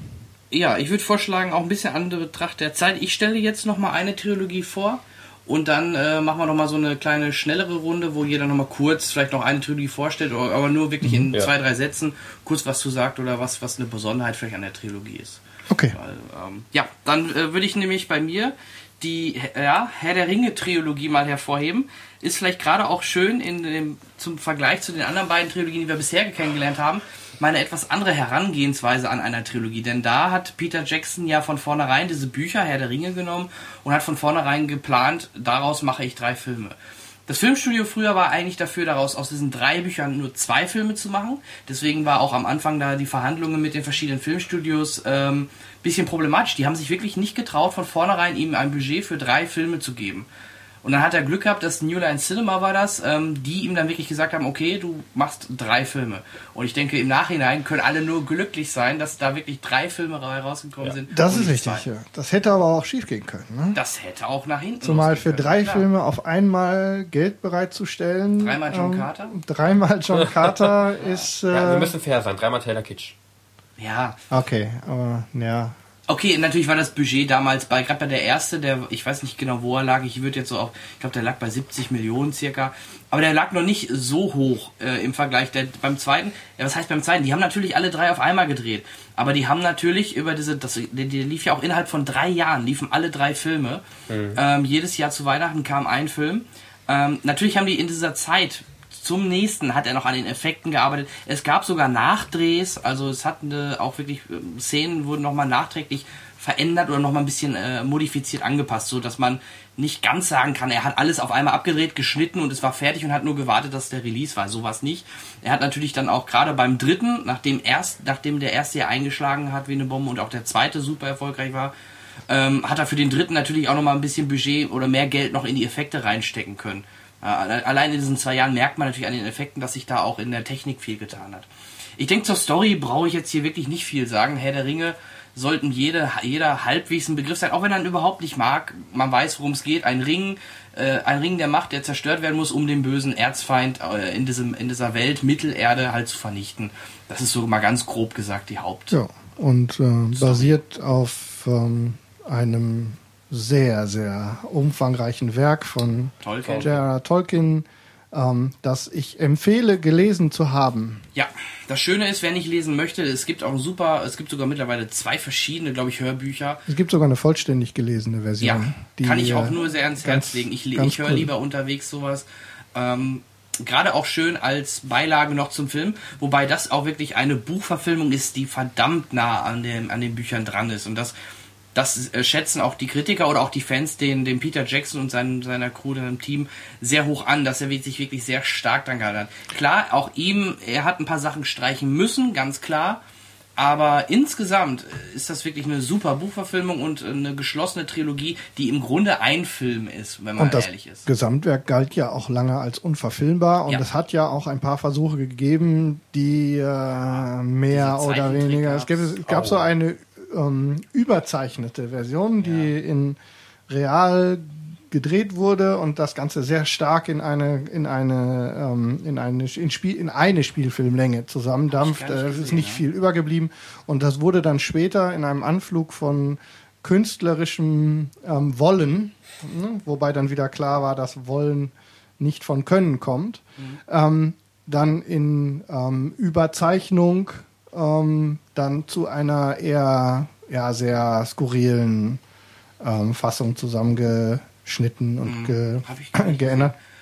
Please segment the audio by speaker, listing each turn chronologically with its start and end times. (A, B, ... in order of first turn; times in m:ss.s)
0:00.5-0:36.7 A
0:15.7-0:16.0 B
0:37.3-0:50.3 A
0:50.8-1:01.9 A
1:01.1-1:03.8 B
1:03.7-1:05.9 A
1:04.8-1:11.9 B
1:08.4-1:09.4 A
1:10.2-1:10.7 C
1:11.0-1:11.3 A
1:11.5-1:13.1 C
1:13.8-1:14.2 A
1:14.3-1:15.8 B
1:16.1-1:33.8 A
1:34.1-1:34.4 C
1:34.4-2:01.7 A
2:02.3-2:11.5 A
2:12.0-2:29.0 A
2:28.9-2:41.0 B
2:30.2-2:30.5 A
2:36.2-2:36.8 A
2:36.4-2:36.7 C
2:41.2-2:46.6 A
2:46.7-2:51.3 B
2:48.4-3:01.2 A
3:01.7-3:13.0 A
3:13.6-3:21.1 A
3:20.4-4:02.2 B
3:27.7-3:29.2 A
3:29.3-3:29.7 C
3:32.4-3:32.7 A
3:41.7-3:42.8 A
4:02.8-4:06.7 B
4:05.2-4:06.7 A